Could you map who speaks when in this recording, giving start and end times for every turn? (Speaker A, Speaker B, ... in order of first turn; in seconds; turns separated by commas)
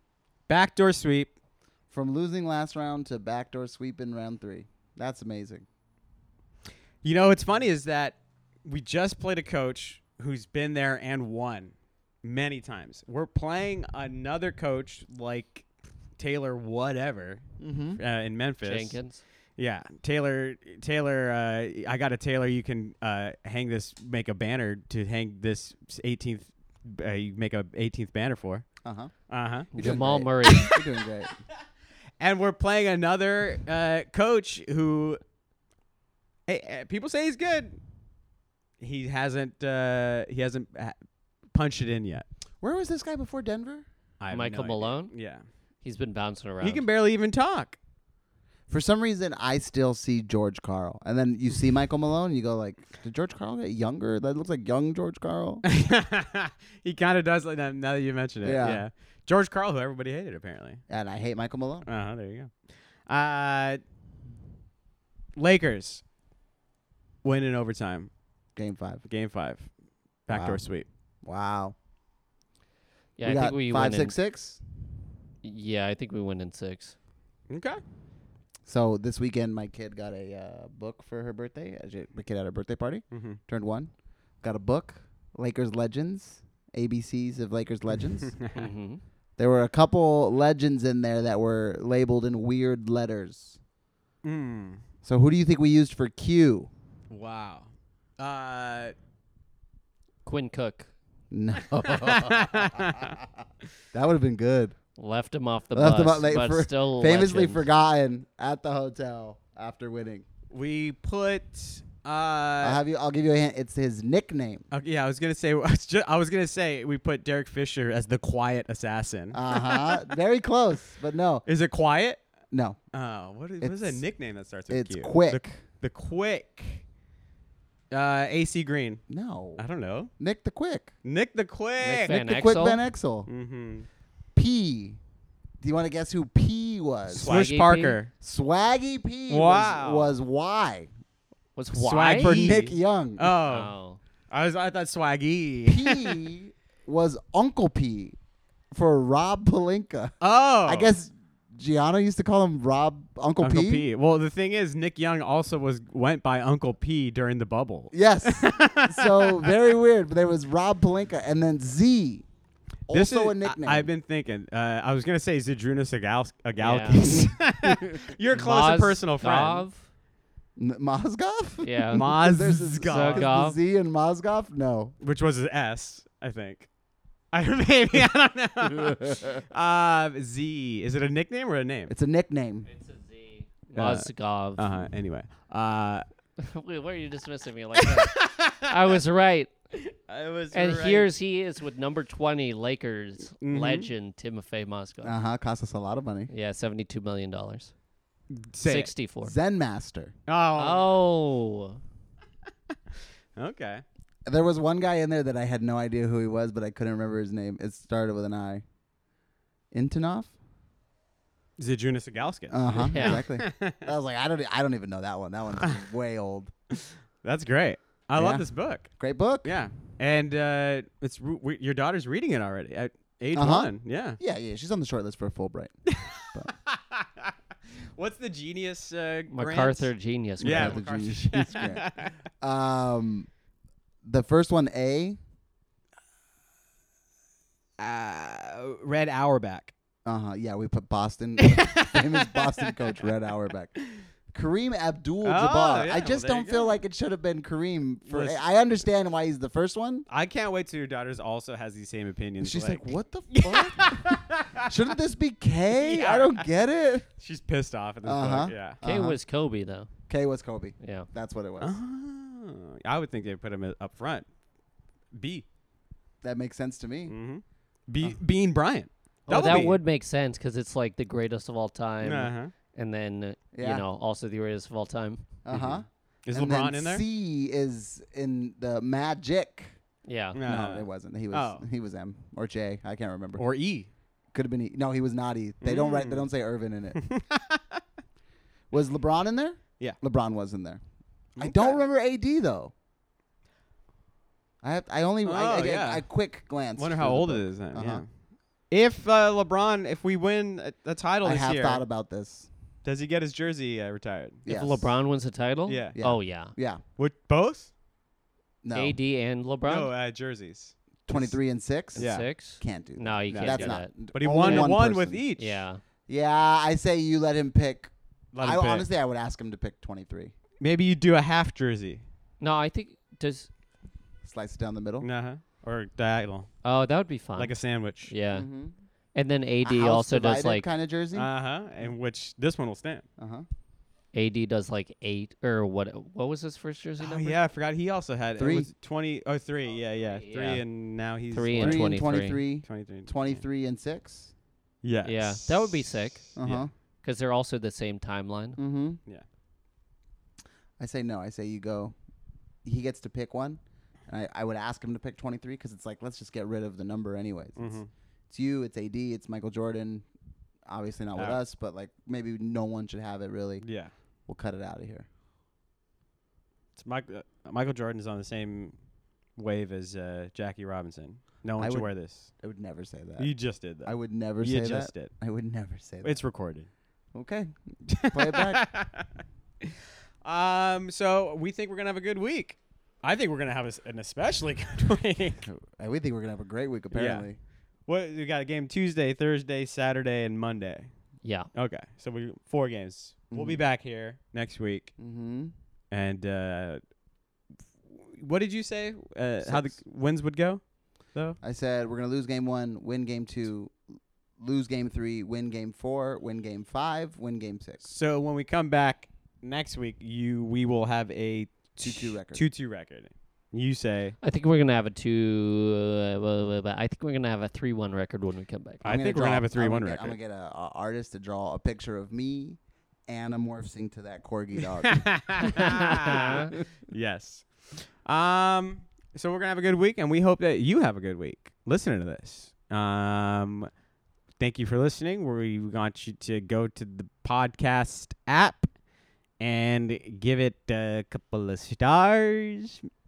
Speaker A: 0.5-1.3, Speaker B: 1.9-5.7, Speaker A: 7.0-15.7, Speaker A: 16.2-17.4, Speaker B: 17.6-18.0, Speaker A: 18.0-19.0, Speaker C: 18.6-19.2, Speaker A: 19.6-28.7, Speaker B: 28.8-29.1, Speaker A: 29.3-29.7, Speaker C: 29.7-30.7, Speaker B: 29.7-31.4, Speaker A: 30.5-30.8, Speaker A: 32.2-35.2, Speaker A: 36.5-37.8, Speaker A: 38.8-41.0, Speaker A: 41.5-42.2, Speaker B: 42.6-43.9, Speaker A: 44.2-45.4, Speaker C: 44.3-45.1, Speaker C: 45.8-46.8, Speaker A: 46.6-47.8, Speaker B: 48.7-55.6, Speaker A: 55.6-60.8, Speaker B: 58.4-58.9, Speaker B: 60.9-61.9, Speaker A: 61.9-63.8, Speaker A: 65.4-66.0, Speaker A: 67.2-68.1, Speaker B: 68.6-69.0, Speaker A: 69.1-69.7, Speaker A: 70.3-70.8, Speaker B: 70.3-70.6, Speaker B: 71.2-71.8, Speaker C: 73.2-74.2, Speaker B: 73.2-74.6, Speaker C: 75.4-77.0, Speaker A: 77.5-77.8, Speaker B: 78.7-88.3, Speaker A: 83.1-83.4, Speaker A: 88.2-88.7, Speaker C: 88.5-89.0, Speaker B: 89.4-93.6, Speaker A: 94.2-94.8, Speaker B: 95.0-96.7, Speaker A: 97.1-99.0, Speaker C: 100.2-100.9, Speaker B: 101.3-103.2, Speaker A: 101.8-103.2, Speaker B: 103.9-104.8, Speaker C: 105.0-107.7, Speaker B: 105.7-110.2, Speaker A: 110.5-112.8, Speaker B: 112.6-114.7, Speaker A: 114.7-120.1, Speaker B: 119.3-121.5, Speaker A: 121.5-122.2, Speaker B: 122.5-122.8, Speaker A: 122.9-126.8, Speaker B: 123.6-124.0, Speaker B: 124.7-125.5, Speaker A: 127.9-129.0, Speaker B: 129.1-129.6, Speaker A: 129.6-130.1, Speaker B: 130.2-130.9, Speaker A: 131.1-132.2, Speaker C: 131.8-132.8, Speaker B: 132.1-133.3, Speaker A: 133.3-133.9, Speaker B: 134.3-135.0, Speaker B: 135.6-137.5, Speaker A: 137.1-138.1, Speaker C: 137.2-138.0, Speaker B: 138.2-140.9, Speaker A: 139.3-140.1, Speaker C: 141.6-142.6, Speaker A: 141.7-143.7, Speaker B: 142.2-143.3, Speaker C: 143.5-144.0, Speaker A: 144.3-146.2, Speaker B: 145.7-148.2, Speaker B: 148.7-150.1, Speaker A: 150.2-150.9, Speaker B: 150.7-153.8, Speaker A: 153.4-159.6, Speaker B: 157.9-162.2, Speaker B: 162.9-163.9, Speaker A: 162.9-169.7, Speaker C: 166.6-167.4, Speaker C: 168.3-169.9, Speaker B: 170.6-175.0, Speaker C: 171.6-172.1, Speaker A: 171.9-173.3, Speaker C: 172.8-173.6, Speaker A: 175.0-176.7, Speaker A: 177.3-181.9, Speaker B: 181.9-182.7, Speaker C: 182.7-184.8, Speaker A: 183.7-186.1, Speaker C: 186.4-189.5, Speaker A: 187.8-189.0, Speaker A: 189.8-191.1, Speaker C: 190.5-195.2, Speaker A: 193.4-193.9, Speaker B: 195.0-196.3, Speaker C: 196.3-197.7, Speaker A: 198.3-198.9, Speaker C: 198.6-199.3, Speaker B: 199.2-200.1, Speaker A: 200.3-201.0, Speaker C: 200.6-201.8, Speaker A: 203.4-203.8, Speaker B: 204.3-208.6, Speaker B: 209.7-210.3, Speaker A: 211.6-213.9, Speaker B: 212.5-216.5, Speaker C: 212.9-213.2, Speaker A: 215.6-215.9, Speaker A: 216.7-218.9, Speaker B: 218.2-219.6, Speaker A: 219.4-224.2, Speaker B: 223.3-225.7, Speaker A: 225.9-227.3, Speaker A: 227.9-232.2, Speaker C: 229.3-230.8, Speaker B: 230.4-231.9, Speaker B: 232.4-233.3, Speaker B: 234.0-235.2, Speaker A: 237.8-239.7, Speaker B: 240.1-243.8, Speaker A: 241.4-243.0, Speaker B: 244.3-250.1, Speaker A: 245.2-246.8, Speaker A: 248.1-248.4, Speaker A: 250.1-254.7, Speaker B: 252.4-257.1, Speaker A: 255.7-256.4, Speaker A: 257.2-258.8, Speaker B: 258.0-259.2, Speaker C: 258.8-259.9, Speaker B: 260.1-261.8, Speaker C: 260.8-261.1, Speaker A: 261.6-264.3, Speaker A: 265.1-265.4, Speaker B: 266.2-267.2, Speaker A: 267.1-269.8, Speaker C: 269.3-275.2, Speaker A: 272.0-272.5, Speaker B: 273.5-273.8, Speaker B: 275.4-279.8, Speaker A: 275.5-277.0, Speaker C: 280.1-280.4, Speaker A: 280.4-281.6, Speaker B: 280.5-283.4, Speaker A: 283.4-283.9, Speaker B: 284.3-287.0, Speaker A: 285.6-286.3, Speaker A: 286.9-287.8, Speaker B: 288.7-290.8, Speaker A: 291.4-291.8, Speaker B: 291.4-292.7, Speaker B: 294.6-298.0, Speaker A: 295.2-296.1, Speaker A: 296.8-298.1, Speaker A: 298.7-301.8, Speaker B: 301.2-302.5, Speaker A: 302.8-304.4, Speaker B: 304.4-304.9, Speaker C: 304.5-306.5, Speaker A: 305.7-306.0, Speaker B: 306.0-306.8, Speaker A: 307.0-307.7, Speaker B: 308.6-309.0, Speaker C: 308.7-309.9, Speaker A: 309.7-311.4, Speaker B: 311.1-312.1, Speaker C: 311.9-314.8, Speaker A: 312.0-312.3, Speaker B: 312.6-315.2, Speaker A: 313.3-315.6, Speaker C: 315.4-315.8, Speaker B: 316.1-320.3, Speaker A: 318.3-318.9, Speaker A: 320.6-322.0, Speaker C: 322.4-323.5, Speaker B: 324.2-325.1, Speaker A: 325.0-326.5, Speaker C: 326.6-328.5, Speaker A: 327.4-328.1, Speaker B: 328.3-328.7, Speaker C: 329.1-330.7, Speaker B: 329.6-331.3, Speaker A: 331.1-333.1, Speaker B: 333.2-333.5, Speaker C: 334.1-337.4, Speaker A: 337.0-342.0, Speaker B: 338.4-338.7, Speaker C: 340.2-340.6, Speaker C: 341.3-342.4, Speaker B: 341.6-344.3, Speaker A: 342.6-343.4, Speaker A: 344.8-346.7, Speaker C: 345.0-346.3, Speaker B: 346.4-346.7, Speaker C: 347.0-348.6, Speaker B: 348.6-349.0, Speaker B: 350.8-351.9, Speaker B: 352.6-360.1, Speaker A: 357.6-357.9, Speaker B: 360.7-363.6, Speaker A: 361.2-361.4, Speaker A: 363.6-363.9, Speaker B: 364.3-365.1, Speaker A: 366.8-368.8, Speaker A: 369.4-372.3, Speaker B: 371.6-373.3, Speaker A: 373.2-375.1, Speaker B: 373.8-376.2, Speaker A: 376.0-376.7, Speaker B: 377.1-378.7, Speaker A: 377.9-379.1, Speaker A: 379.6-385.5, Speaker B: 385.4-387.4, Speaker A: 386.9-387.3, Speaker A: 387.9-390.9, Speaker C: 391.2-391.5, Speaker A: 391.5-394.9, Speaker B: 393.3-393.6, Speaker B: 395.0-395.5, Speaker A: 395.9-396.8, Speaker A: 397.9-400.6, Speaker B: 399.4-399.8, Speaker B: 401.4-403.8, Speaker B: 404.4-407.9, Speaker A: 407.8-414.2, Speaker B: 411.8-412.4, Speaker C: 414.2-418.8, Speaker A: 418.8-420.2, Speaker B: 418.9-426.4, Speaker A: 424.6-433.7, Speaker C: 425.6-426.5, Speaker A: 434.4-438.7, Speaker A: 439.4-442.8